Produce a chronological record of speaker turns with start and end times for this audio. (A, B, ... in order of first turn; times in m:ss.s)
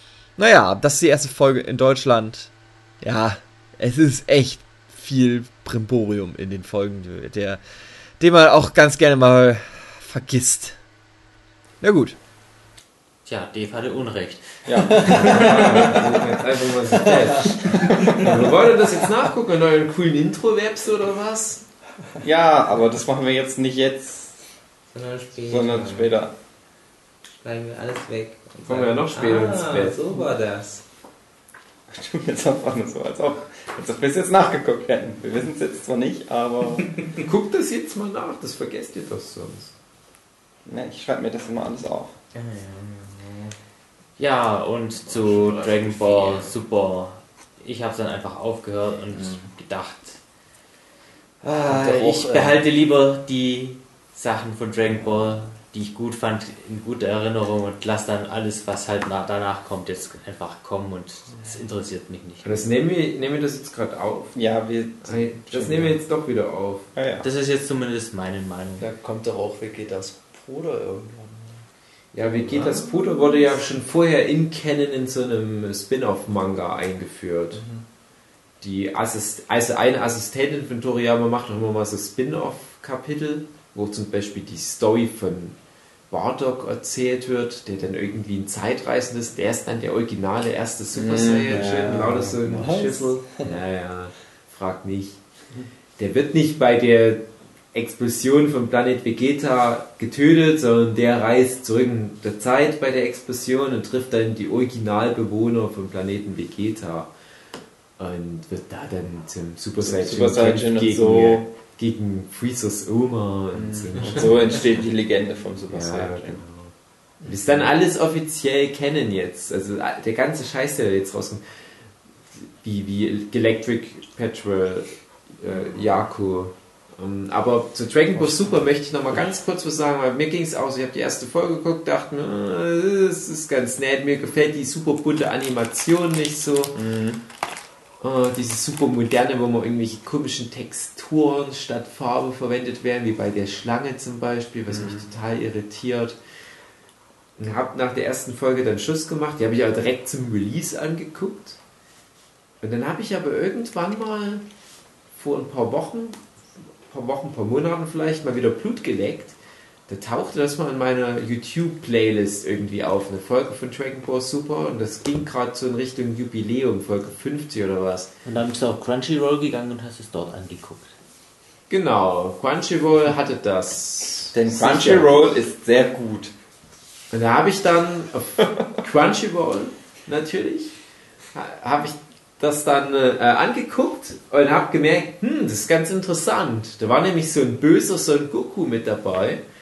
0:00.4-0:07.6 A
0:08.2-0:10.8 A
0:11.8-0:12.2 A
0:13.2-0:15.7 B
0:14.6-0:16.2 A
0:15.0-0:15.7 C
0:15.2-0:21.6 D
0:17.7-0:18.4 A
0:22.2-0:24.3 A
0:24.9-0:26.1 E
0:25.5-0:26.3 A
0:27.4-0:30.8 E
0:28.6-0:30.2 D
0:31.9-0:36.9 A
0:37.2-0:39.7 D
0:40.6-0:42.1 A
0:42.4-0:43.2 B
0:43.1-0:43.5 E
0:44.2-0:50.2 B
0:45.1-0:46.4 D
0:51.4-0:52.4 A
0:51.6-1:02.7 B
0:51.7-0:52.6 C
1:02.4-1:04.4 D
1:04.3-1:06.0 A
1:05.0-1:06.9 D
1:06.9-1:07.2 A
1:07.2-1:08.9 B
1:08.8-1:11.6 C
1:12.1-1:17.6 D
1:12.5-1:13.4 C
1:17.5-1:17.8 C
1:18.6-1:25.6 D
1:26.1-1:35.2 D
1:30.9-1:32.3 A
1:31.5-1:33.5 C
1:36.0-1:47.1 D
1:48.0-1:54.8 D
1:49.8-1:51.5 A
1:53.5-1:56.4 A
1:55.7-1:56.7 D
1:57.2-2:01.4 D
2:02.6-2:16.8 D
2:16.7-2:17.2 A
2:18.0-2:26.2 D
2:24.7-2:25.0 A
2:27.4-2:31.6 D
2:32.6-2:34.4 D
2:35.1-2:36.2 D
2:36.9-2:39.3 D
2:39.9-2:48.1 D
2:48.2-2:50.9 B
2:51.7-2:55.1 D
2:54.3-2:56.3 A
2:57.1-3:00.7 D
3:01.3-3:09.4 D